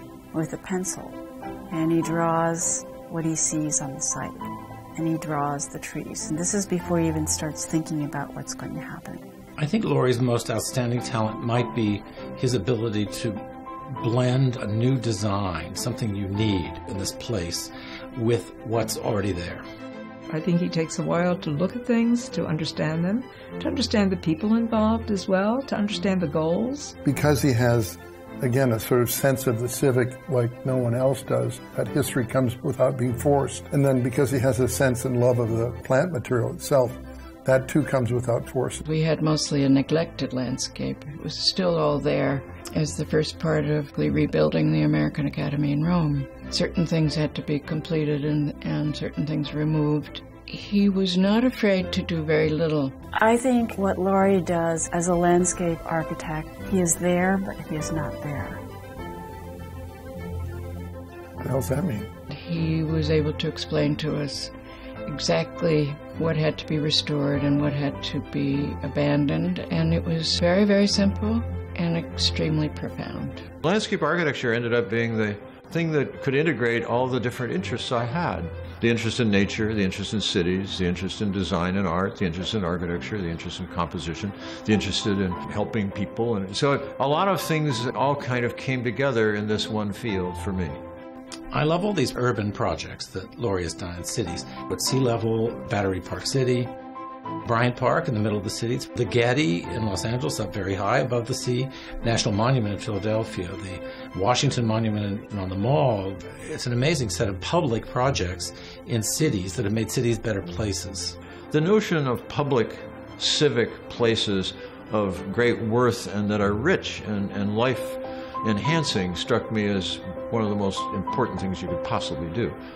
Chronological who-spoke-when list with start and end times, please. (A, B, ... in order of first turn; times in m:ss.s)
0:00.3-0:01.2 A
0:01.7-0:09.2 A
0:09.6-0:13.4 B
0:14.0-0:19.6 B
0:20.3-0:26.9 C
0:27.0-0:38.8 D
0:38.8-0:53.0 E
0:53.2-0:58.6 A
1:01.4-1:02.1 D
1:02.3-1:04.5 E
1:05.1-1:13.5 E
1:13.6-1:30.8 F
1:31.5-1:36.7 B
1:37.4-1:51.2 B
1:51.5-2:02.6 F